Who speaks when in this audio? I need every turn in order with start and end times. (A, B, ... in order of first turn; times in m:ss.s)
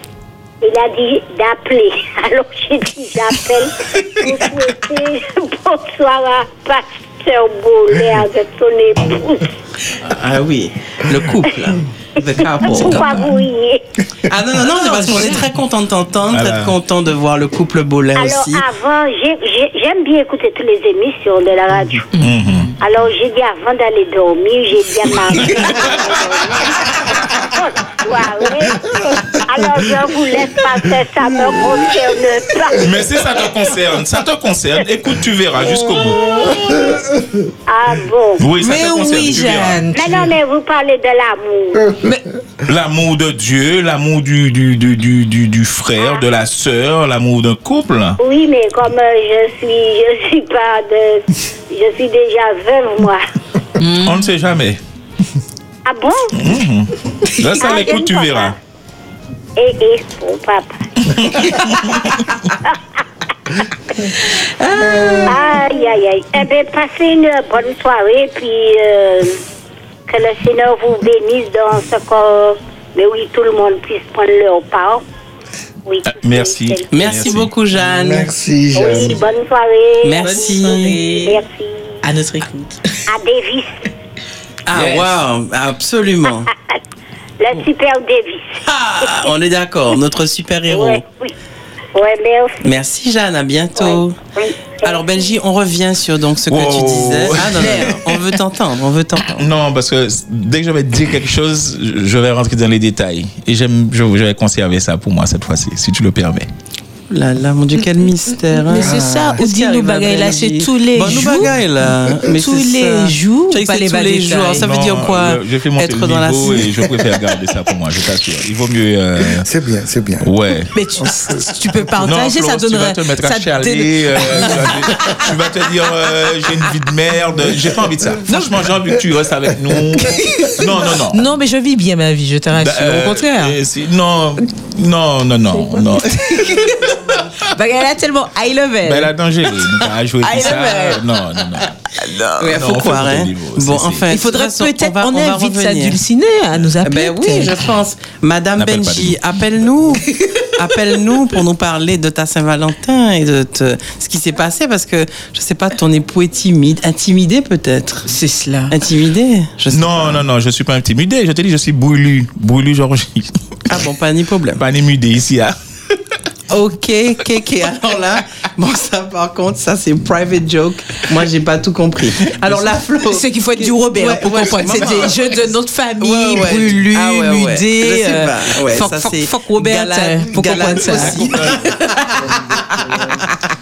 0:00.6-0:09.5 A
0:10.0-0:13.2 B
0:12.6-0:13.8 A
0:14.3-0:18.6 B
0:16.3-0:16.8 C
0:18.2-0:22.1 A
0:22.2-0:22.7 C
0:22.8-0:33.0 A
0:32.8-0:36.3 C
0:35.9-0:37.0 A
0:36.6-0:37.4 D
0:37.7-0:38.6 A
0:38.4-0:39.8 C
0:38.6-0:40.3 E
0:39.9-0:41.9 A
0:41.8-0:42.1 D
0:42.6-0:48.2 C
0:46.0-0:46.2 A
0:48.2-0:53.2 A
0:53.8-0:54.2 E
0:54.0-0:54.8 C
0:55.8-0:56.6 A
0:56.3-0:58.5 C
0:57.6-0:58.5 A
0:59.6-1:00.7 A
1:01.2-1:02.3 C
1:04.6-1:05.6 E
1:05.0-1:05.3 D
1:05.2-1:09.4 A
1:10.1-1:15.0 A
1:15.8-1:17.4 A
1:16.0-1:17.5 C
1:16.9-1:18.3 B
1:17.8-1:19.2 D
1:18.7-1:22.0 A
1:20.0-1:21.0 B
1:20.2-1:21.4 E
1:22.0-1:22.9 E
1:23.1-1:23.9 A
1:24.6-1:26.5 B
1:24.7-1:25.1 C
1:27.4-1:28.5 A
1:28.7-1:31.0 B
1:30.7-1:31.3 A
1:31.9-1:32.6 A
1:32.6-1:34.2 B
1:33.8-1:35.3 A
1:34.8-1:39.5 B
1:36.5-1:38.2 C
1:37.5-1:38.0 E
1:39.4-1:46.5 C
1:47.1-1:57.0 B
1:48.7-1:51.5 E
1:52.3-1:54.6 E
1:54.6-1:59.5 C
1:59.4-2:00.3 D
2:00.2-2:00.7 C
2:00.7-2:05.3 E
2:02.0-2:11.3 C
2:10.0-2:13.6 E
2:12.6-2:16.8 C
2:16.1-2:16.9 E
2:17.5-2:19.1 E
2:18.8-2:21.7 C
2:20.2-2:21.0 E
2:21.9-2:22.5 E
2:22.4-2:26.0 B
2:22.5-2:24.1 C
2:24.1-2:27.5 E
2:26.8-2:30.0 B
2:28.6-2:29.2 C
2:30.6-2:38.1 B
2:38.1-2:38.7 E
2:38.7-2:40.2 B
2:39.7-2:43.8 C
2:43.7-2:44.6 B
2:44.6-2:45.5 C
2:46.5-3:03.0 B
2:53.1-3:01.6 E
3:00.8-3:01.8 C